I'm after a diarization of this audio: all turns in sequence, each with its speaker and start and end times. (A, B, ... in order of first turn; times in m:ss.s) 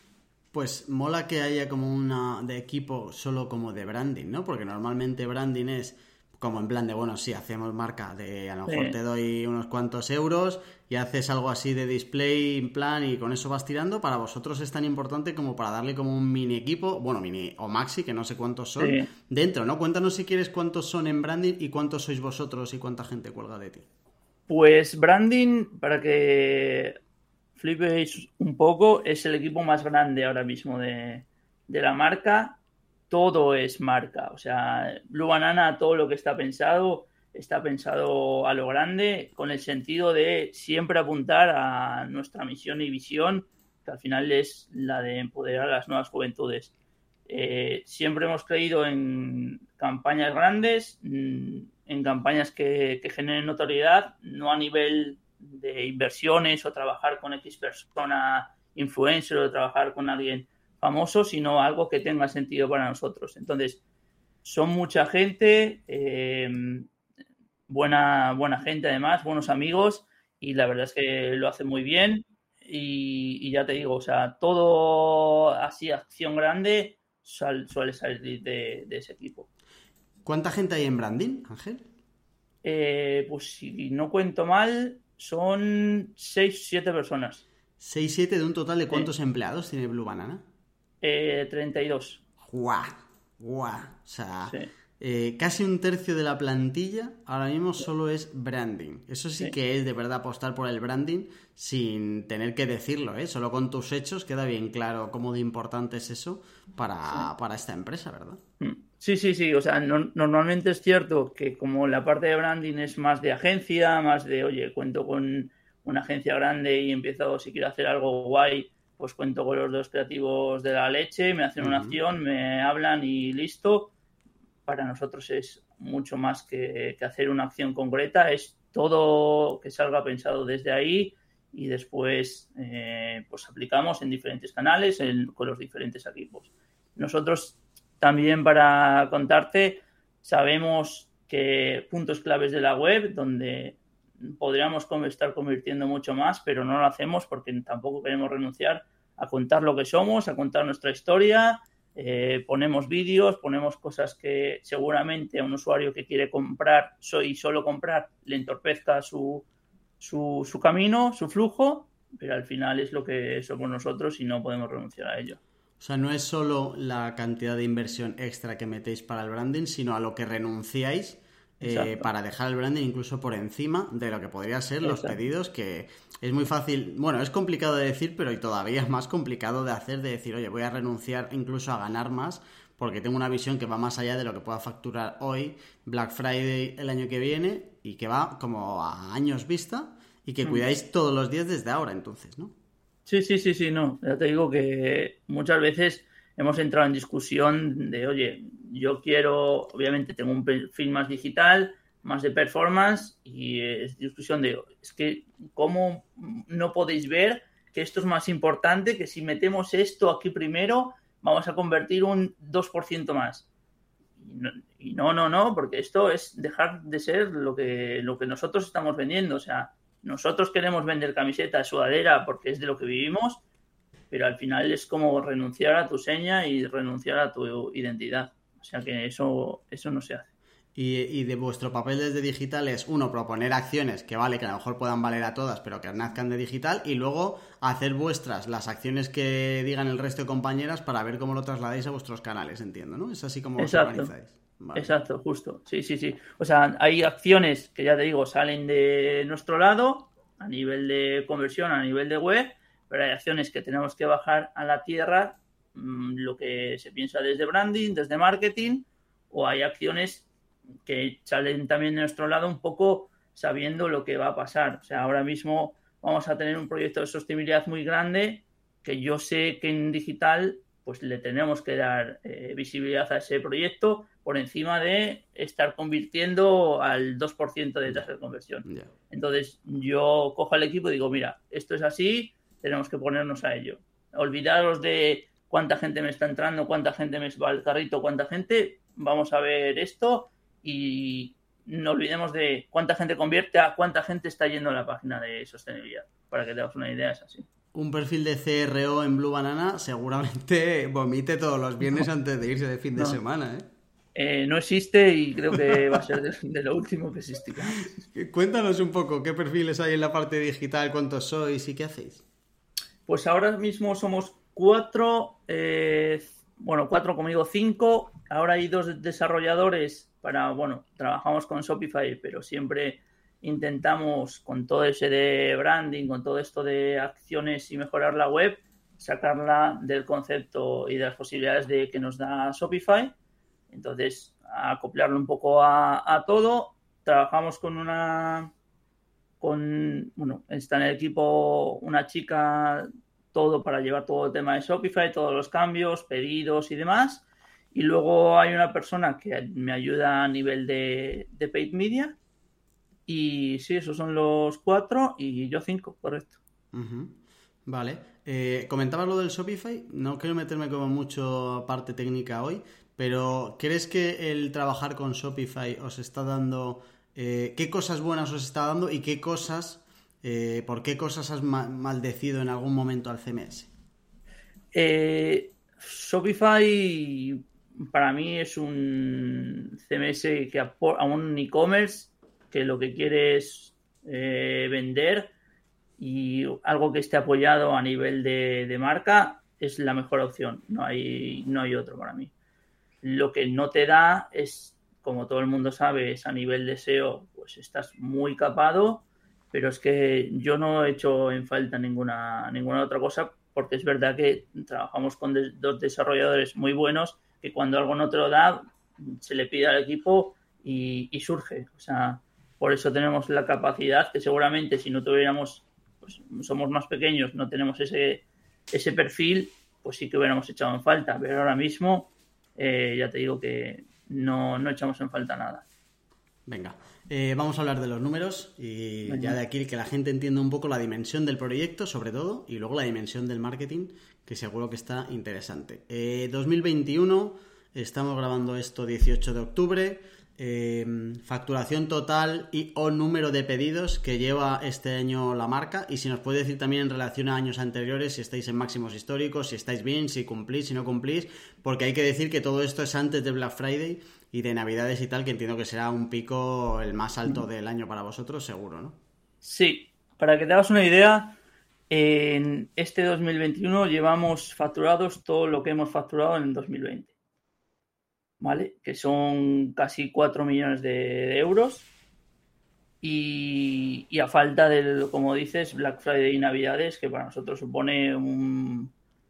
0:00.5-0:23.8 A
0:08.6-0:09.0 B
0:18.8-0:19.1 B
0:24.5-0:27.0 B
0:27.6-0:32.6 B
0:33.1-0:46.7 B
0:47.3-1:03.8 B
1:04.4-1:06.9 B
1:07.7-1:19.5 B
1:20.2-1:21.8 A
1:22.6-1:27.4 B
1:27.8-1:30.4 A
1:31.0-1:32.2 B
1:32.4-1:48.4 A
1:48.6-2:03.9 B
2:01.6-2:02.0 A
2:04.6-2:39.4 B
2:40.0-2:45.4 B
2:45.8-3:12.5 A
2:51.6-2:52.1 B
2:54.8-2:55.1 B
3:13.0-3:33.5 B
3:34.2-3:43.4 B
3:44.1-3:50.3 B
3:50.7-4:04.9 A
4:03.6-4:04.1 B
4:04.8-4:20.3 B
4:20.8-4:57.5 B
4:38.6-4:38.9 A
4:57.7-5:03.6 A
5:04.1-5:08.0 B
5:05.6-5:06.0 A
5:08.1-5:12.2 A
5:13.1-5:33.1 B
5:33.7-5:38.5 B
5:39.4-5:52.2 B
5:53.1-5:56.4 B
5:56.7-5:57.1 A
5:57.6-6:13.7 A
6:14.7-6:25.3 B
6:26.0-6:32.3 B
6:33.0-7:05.6 B
7:06.5-7:39.0 A
7:09.0-7:09.4 B
7:39.4-7:41.4 B
7:41.9-7:47.1 B
7:48.4-7:51.9 B
7:53.0-7:58.9 B